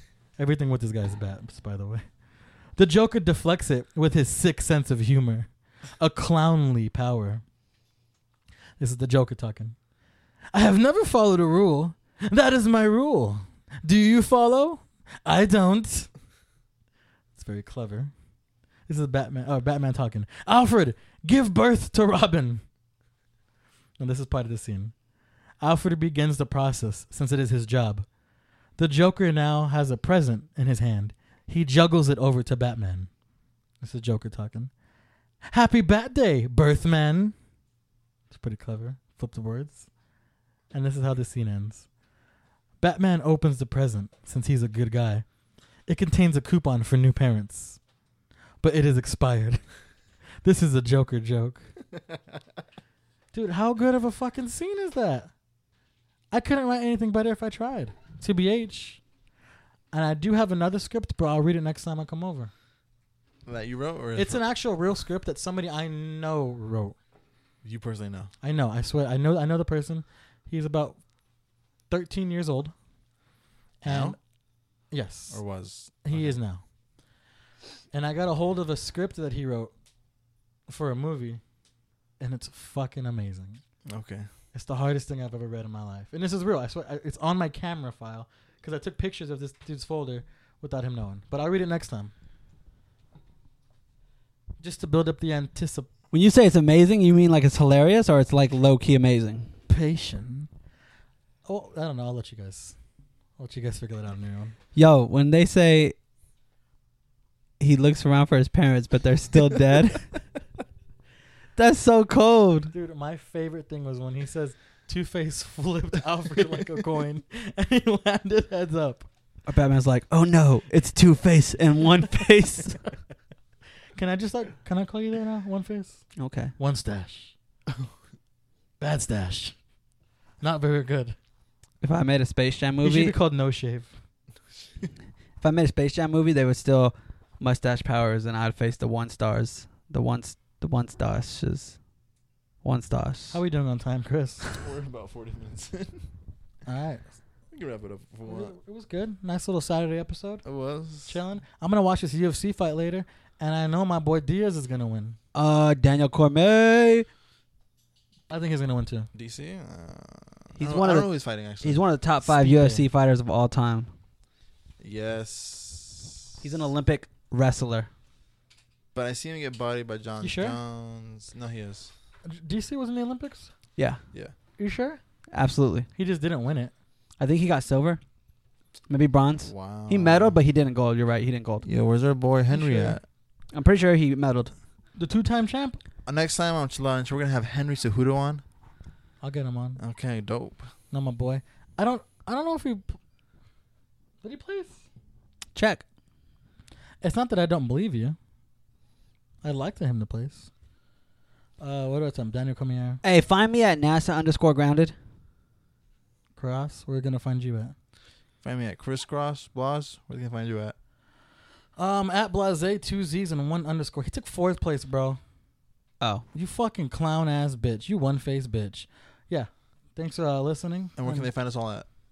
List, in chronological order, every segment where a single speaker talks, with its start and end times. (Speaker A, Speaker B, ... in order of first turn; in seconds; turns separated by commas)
Speaker A: 0.4-2.0, Speaker A: 2.8-5.5, Speaker A: 6.0-7.4, Speaker A: 8.8-9.8, Speaker A: 10.5-16.1, Speaker A: 17.4-18.1, Speaker A: 18.9-22.6, Speaker A: 24.0-24.9, Speaker A: 25.6-28.1, Speaker A: 28.8-33.1, Speaker A: 33.8-34.7, Speaker A: 35.4-37.3, Speaker A: 38.3-39.9, Speaker A: 40.7-41.9, Speaker A: 42.8-45.2, Speaker A: 45.9-47.8, Speaker A: 48.6-49.6, Speaker A: 50.4-51.7, Speaker A: 53.3-55.3, Speaker A: 56.3-59.0, Speaker A: 59.9-62.5, Speaker B: 63.5-64.4, Speaker A: 64.2-67.0, Speaker B: 67.6-68.3, Speaker A: 68.4-71.0, Speaker A: 71.9-72.7, Speaker A: 73.8-74.2, Speaker B: 73.8-74.2, Speaker A: 74.9-75.4, Speaker B: 75.3-76.3, Speaker A: 76.0-76.6, Speaker A: 77.9-79.7, Speaker A: 80.7-81.4, Speaker A: 82.2-83.6, Speaker B: 83.9-84.3, Speaker A: 84.5-92.1, Speaker A: 94.6-95.9, Speaker C: 96.1-99.5, Speaker A: 99.7-100.5, Speaker A: 101.5-102.8, Speaker A: 103.4-104.5, Speaker C: 104.7-105.9, Speaker C: 107.6-110.1, Speaker C: 111.5-112.7, Speaker A: 112.7-119.1, Speaker C: 119.5-122.8, Speaker A: 123.9-127.3, Speaker C: 126.2-126.5, Speaker A: 128.8-129.6, Speaker A: 130.4-131.2, Speaker C: 131.8-133.1, Speaker A: 132.8-133.9, Speaker C: 135.4-141.8, Speaker C: 142.6-143.4, Speaker A: 143.3-144.5, Speaker B: 144.5-146.0, Speaker A: 146.7-147.1, Speaker B: 147.5-148.5, Speaker A: 148.2-150.4, Speaker B: 150.4-151.2, Speaker A: 151.1-155.2, Speaker C: 155.3-157.1, Speaker A: 158.3-159.1, Speaker B: 159.1-161.9, Speaker C: 160.6-163.9, Speaker A: 162.2-162.8, Speaker B: 164.8-166.3, Speaker C: 166.4-167.9, Speaker B: 168.9-171.9, Speaker A: 170.2-170.6, Speaker A: 172.2-173.5, Speaker A: 174.6-175.0, Speaker C: 175.3-175.9, Speaker A: 175.9-176.7, Speaker C: 177.2-178.0, Speaker C: 178.9-181.6, Speaker B: 179.4-180.3, Speaker B: 181.6-183.0, Speaker A: 182.5-183.0, Speaker C: 183.5-184.5, Speaker A: 184.9-185.8, Speaker B: 186.1-188.4, Speaker A: 189.2-189.8, Speaker B: 189.8-190.7, Speaker A: 190.9-193.0, Speaker A: 194.2-194.8, Speaker C: 195.5-195.8, Speaker A: 197.0-198.2, Speaker A: 199.4-200.5, Speaker A: 201.6-203.0, Speaker C: 203.0-204.9, Speaker A: 206.4-207.7, Speaker B: 208.4-210.7, Speaker A: 211.8-215.2, Speaker A: 216.3-221.3, Speaker B: 221.0-221.8